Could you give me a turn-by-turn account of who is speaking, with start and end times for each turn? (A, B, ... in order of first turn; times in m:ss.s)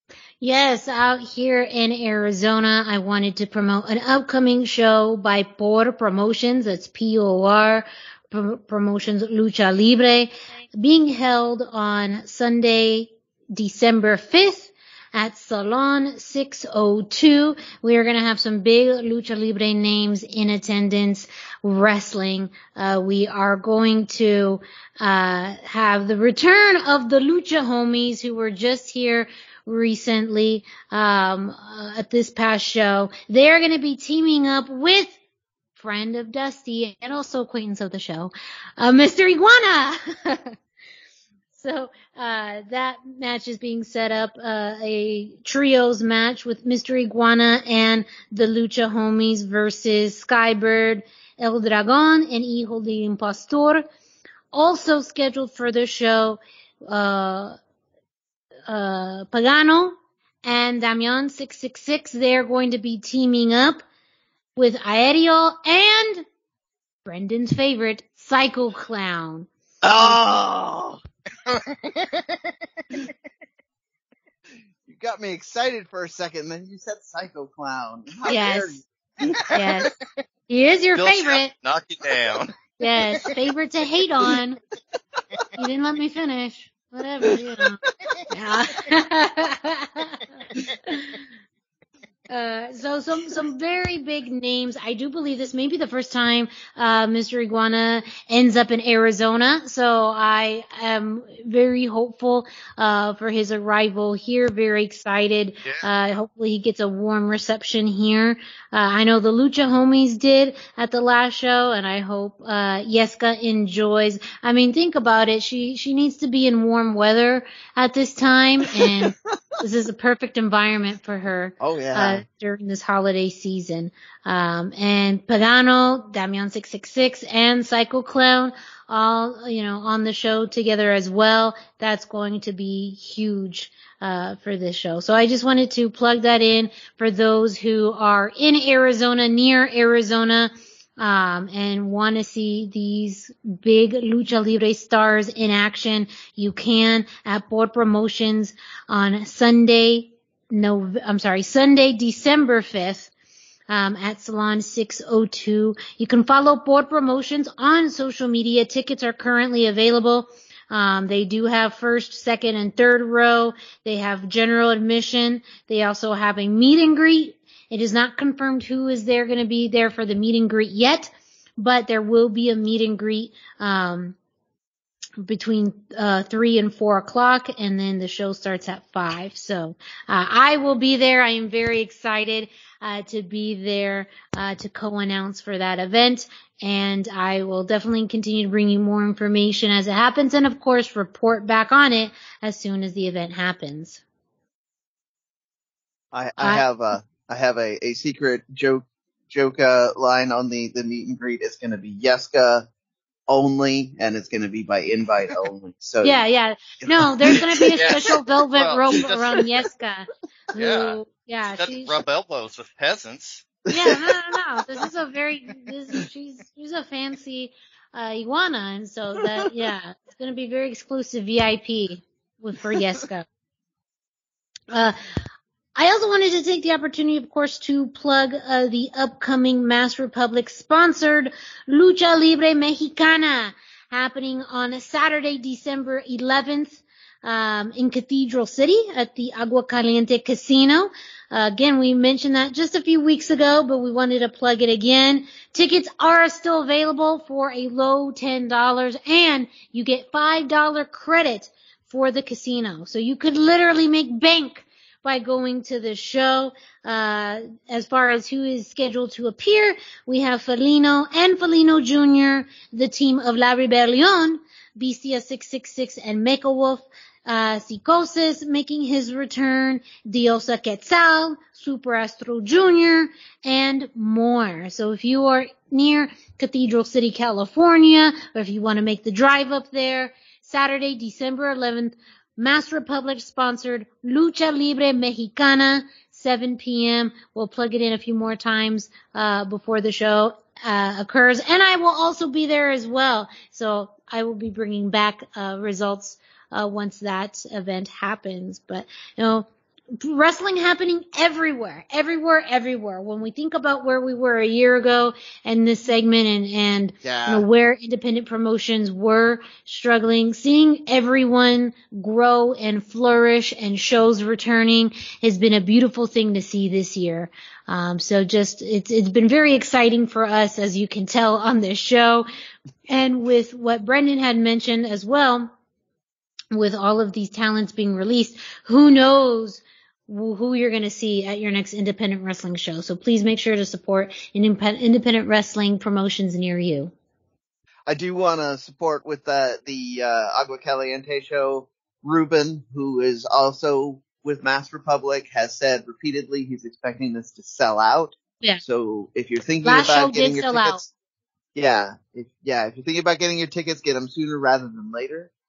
0:00.4-0:35.2 A
0:35.8-0:40.5 A
0:41.5-0:53.8 A
0:54.5-0:57.6 A
0:58.7-1:03.8 A
1:04.6-1:06.2 A
1:07.0-1:09.5 A
1:09.8-1:11.0 B
1:11.5-1:12.2 C
1:14.9-1:19.6 B
1:18.3-1:18.8 A
1:19.3-1:19.7 C
1:19.5-1:19.9 A
1:20.5-1:21.5 A
1:21.0-1:23.4 C
1:22.8-1:24.6 A
1:25.6-1:27.8 A
1:28.3-1:30.2 A
1:30.8-1:31.2 A
1:32.3-2:33.1 A
1:58.8-1:59.1 B
2:01.6-2:02.2 B
2:33.7-2:54.2 A
2:55.2-3:14.0 A
3:16.1-3:22.6 B
3:16.4-3:16.6 A
3:23.3-3:26.2 B
3:26.0-3:32.0 A
3:26.8-3:28.0 B
3:27.8-3:29.5 C
3:30.5-3:31.0 C
3:31.5-3:33.5 C
3:33.7-3:43.2 A
3:33.7-3:34.2 B
3:44.7-3:45.0 A
3:45.8-4:59.5 A
5:00.0-5:22.3 A
5:07.0-5:07.4 B
5:22.9-5:25.5 A
5:26.5-5:36.9 A
5:37.9-5:50.9 B
5:49.6-5:50.8 A
5:51.5-5:55.3 B